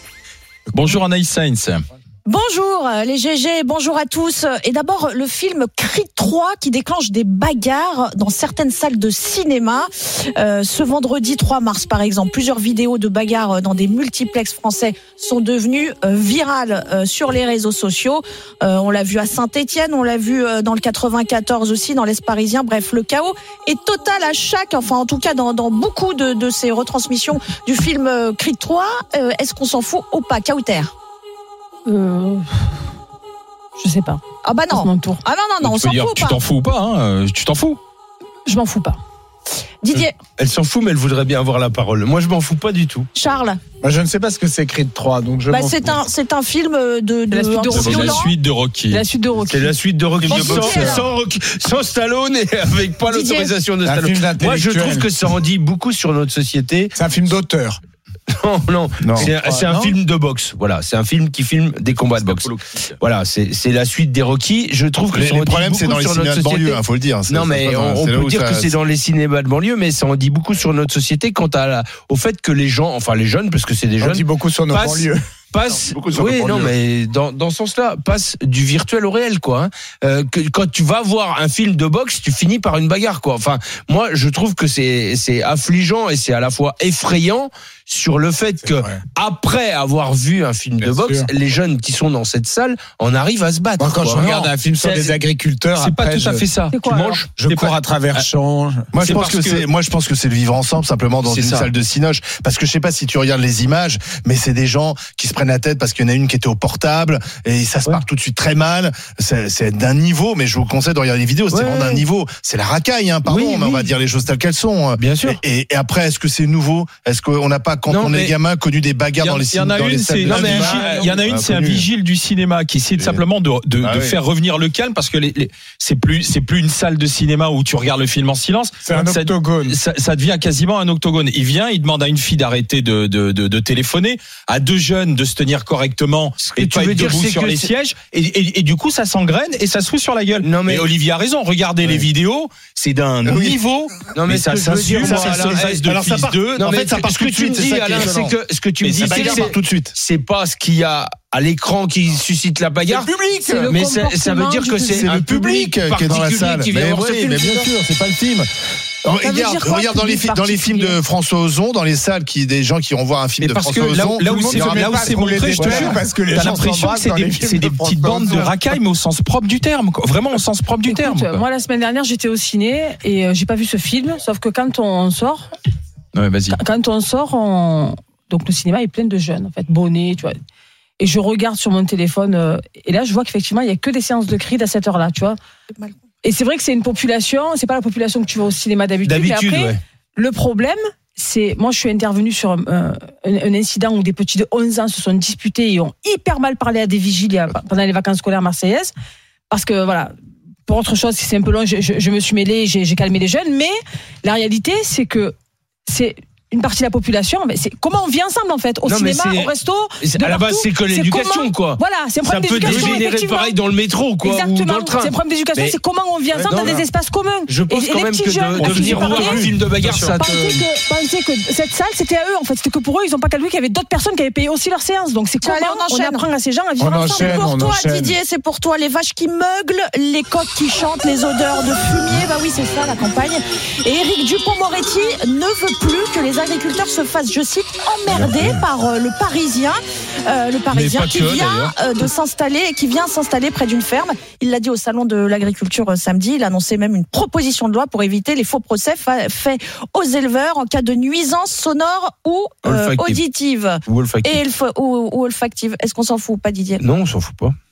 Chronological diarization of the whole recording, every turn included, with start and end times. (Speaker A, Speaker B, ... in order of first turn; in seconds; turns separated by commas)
Speaker A: 0.7-1.8, Speaker B: 2.3-30.9, Speaker C: 31.9-32.7, Speaker C: 33.8-35.2, Speaker B: 34.4-36.4, Speaker A: 35.6-37.8, Speaker C: 38.5-39.0, Speaker B: 39.8-40.1, Speaker D: 39.9-43.1, Speaker B: 43.1-43.6, Speaker E: 43.8-46.0, Speaker B: 45.5-48.4, Speaker C: 47.3-48.3, Speaker A: 47.7-49.0, Speaker C: 48.9-49.8, Speaker D: 49.4-56.9, Speaker B: 50.2-51.1, Speaker E: 50.3-51.0, Speaker A: 50.5-51.0, Speaker B: 53.1-53.6, Speaker E: 53.8-55.1, Speaker E: 57.0-57.8, Speaker D: 58.3-95.2, Speaker F: 59.0-59.3, Speaker E: 59.2-60.0, Speaker A: 62.1-62.9, Speaker F: 65.1-68.8, Speaker E: 74.0-75.2, Speaker F: 75.8-76.7, Speaker E: 88.6-89.0, Speaker E: 90.8-91.3, Speaker E: 93.8-96.5, Speaker A: 95.8-96.7, Speaker D: 96.6-97.3, Speaker C: 96.7-97.2, Speaker E: 97.4-98.9, Speaker A: 97.4-98.2, Speaker F: 98.9-121.9, Speaker A: 99.0-99.7, Speaker D: 101.2-101.7, Speaker D: 111.5-112.0, Speaker D: 113.3-113.9, Speaker D: 115.0-115.4, Speaker D: 117.9-118.4, Speaker A: 119.2-146.7, Speaker D: 120.2-121.1, Speaker E: 120.5-121.1, Speaker F: 123.0-123.2, Speaker F: 123.8-124.2, Speaker E: 128.8-129.8, Speaker D: 136.4-137.7, Speaker D: 140.4-140.9, Speaker F: 143.2-143.6, Speaker D: 144.1-145.8, Speaker F: 144.9-148.4, Speaker D: 146.6-153.1, Speaker A: 148.8-149.5, Speaker F: 149.0-149.9, Speaker A: 152.9-153.7, Speaker C: 153.4-155.1, Speaker D: 153.7-157.7, Speaker F: 155.0-158.5, Speaker F: 159.1-166.6, Speaker B: 159.2-161.0, Speaker C: 159.2-159.8, Speaker A: 163.4-171.4, Speaker E: 164.3-168.6, Speaker C: 170.8-175.5, Speaker A: 176.1-176.6, Speaker C: 176.5-180.4, Speaker C: 181.0-185.4, Speaker C: 186.2-198.9, Speaker D: 189.1-189.8, Speaker C: 199.5-200.1, Speaker C: 200.7-205.3, Speaker C: 205.9-213.6, Speaker D: 208.9-215.8, Speaker A: 212.6-213.0, Speaker C: 214.2-219.6, Speaker A: 216.4-216.8, Speaker D: 217.5-220.6, Speaker A: 218.6-220.5, Speaker C: 220.1-227.5, Speaker B: 225.4-226.2, Speaker E: 226.8-228.2, Speaker B: 227.1-256.8, Speaker D: 240.7-241.7, Speaker D: 252.6-253.2, Speaker D: 253.9-254.4, Speaker D: 256.8-257.6